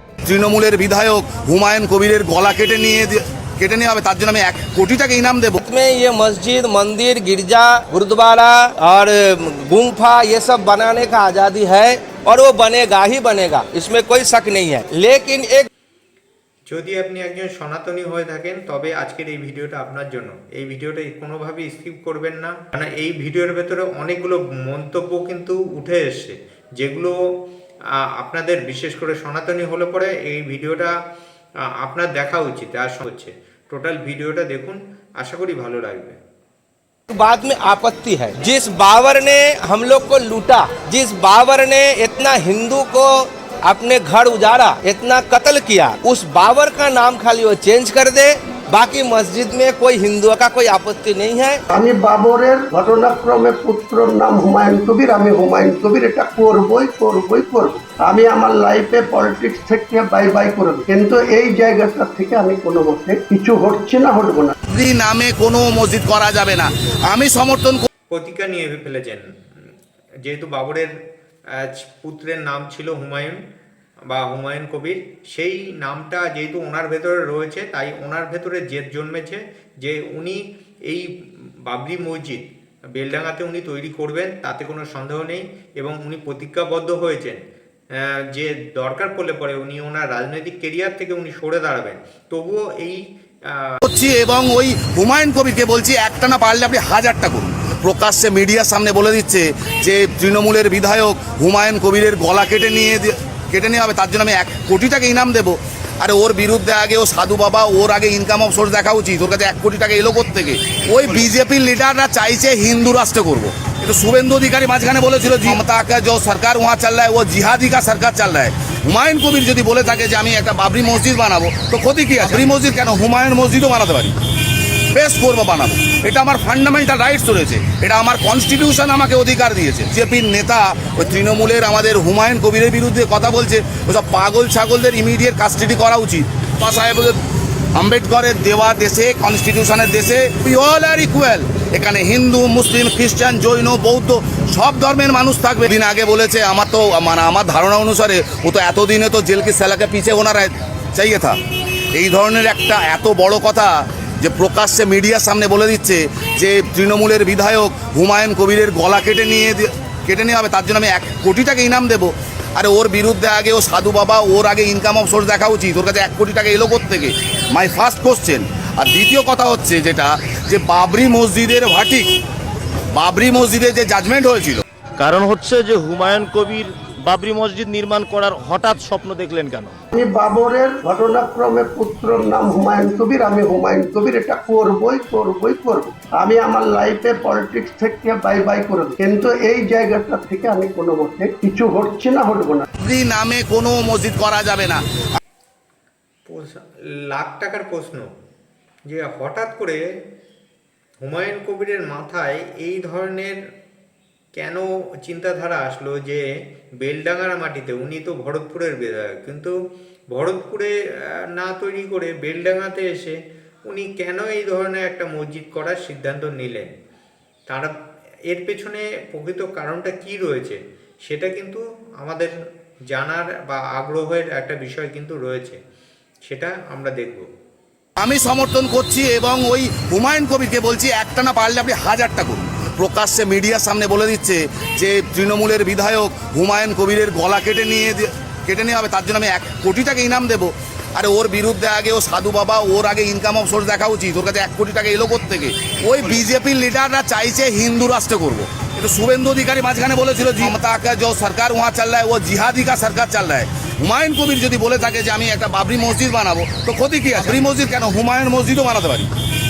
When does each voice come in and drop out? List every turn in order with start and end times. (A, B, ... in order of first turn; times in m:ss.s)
0:00.2-0:05.6 A
0:05.6-0:15.7 B
0:16.6-0:27.1 C
0:28.0-0:30.9 C
0:31.8-0:36.2 C
0:37.1-0:51.6 B
0:51.7-1:04.5 D
1:04.7-1:07.9 A
1:08.1-1:09.2 C
1:10.2-1:10.9 C
1:11.6-1:13.4 C
1:14.1-1:27.4 C
1:27.9-1:33.8 C
1:33.8-2:04.2 A
2:04.9-2:17.2 A
2:17.8-2:31.4 A
2:31.9-2:52.2 A
2:52.9-2:54.6 A
2:55.0-2:59.8 E
2:59.9-3:12.6 D
3:12.8-3:14.8 A
3:16.3-3:18.1 C
3:18.9-3:19.8 C
3:21.0-3:23.4 C
3:24.3-3:26.3 C
3:26.8-3:29.5 C
3:30.1-3:33.2 C
3:33.7-3:36.7 C
3:38.3-3:42.3 C
3:42.9-3:45.6 C
3:46.2-3:47.2 C
3:48.0-4:19.1 A